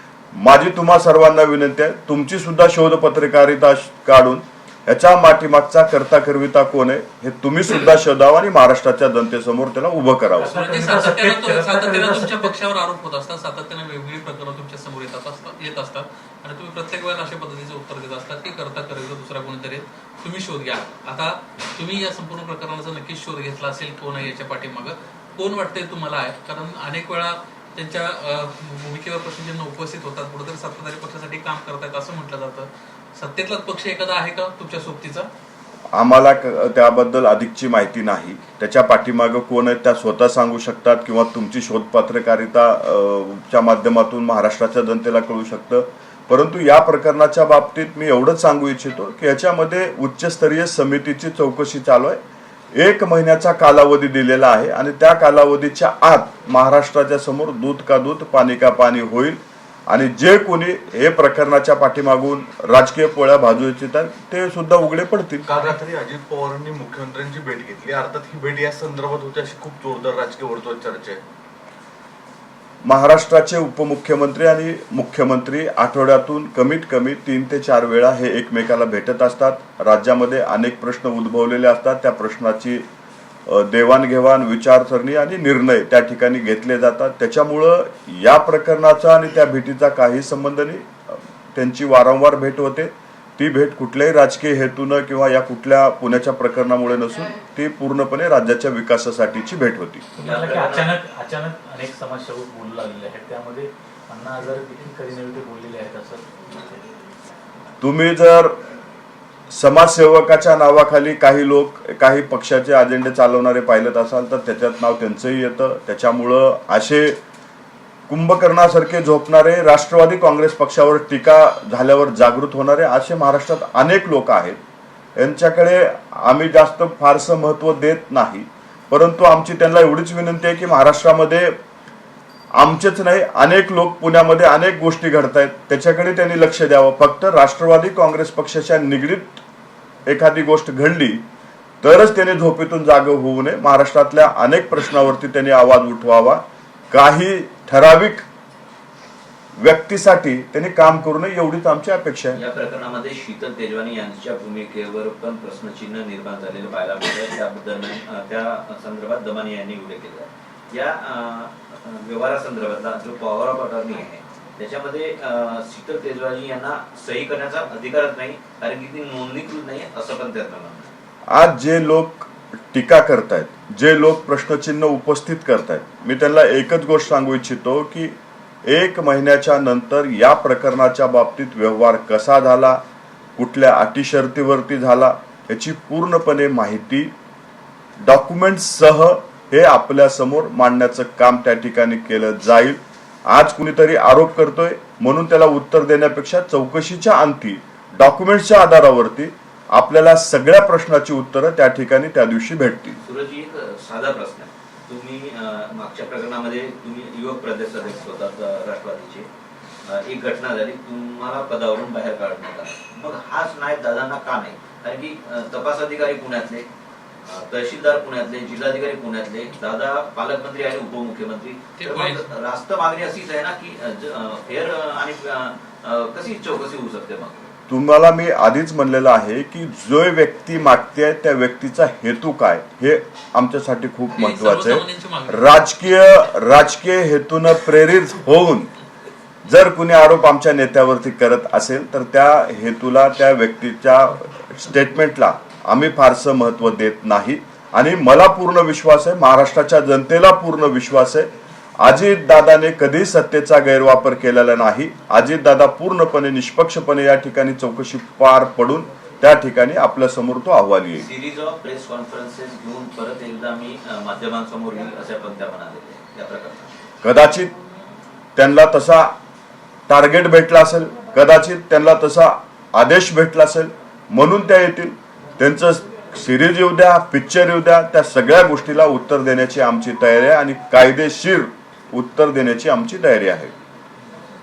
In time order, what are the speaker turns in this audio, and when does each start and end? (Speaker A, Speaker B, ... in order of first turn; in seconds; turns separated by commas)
Speaker A: 0.3-10.5, Speaker B: 10.4-12.6, Speaker C: 10.5-35.3, Speaker A: 35.9-52.2, Speaker A: 52.7-65.5, Speaker D: 65.5-71.2, Speaker A: 72.8-82.8, Speaker A: 83.5-100.0, Speaker B: 100.2-106.6, Speaker E: 100.2-100.9, Speaker A: 107.8-108.6, Speaker A: 109.5-117.2, Speaker A: 118.1-124.6, Speaker A: 125.2-131.6, Speaker A: 132.6-139.4, Speaker A: 140.1-141.2, Speaker A: 141.8-148.3, Speaker A: 149.6-152.4, Speaker E: 152.3-170.9, Speaker A: 171.3-182.8, Speaker A: 183.4-187.1, Speaker A: 188.0-203.0, Speaker E: 203.1-209.3, Speaker E: 209.8-216.7, Speaker E: 217.2-227.5, Speaker C: 221.8-222.3, Speaker A: 227.7-238.7, Speaker C: 234.1-235.6, Speaker A: 239.4-261.1, Speaker E: 261.0-266.7, Speaker A: 267.0-267.5, Speaker A: 268.4-269.1, Speaker A: 269.9-283.5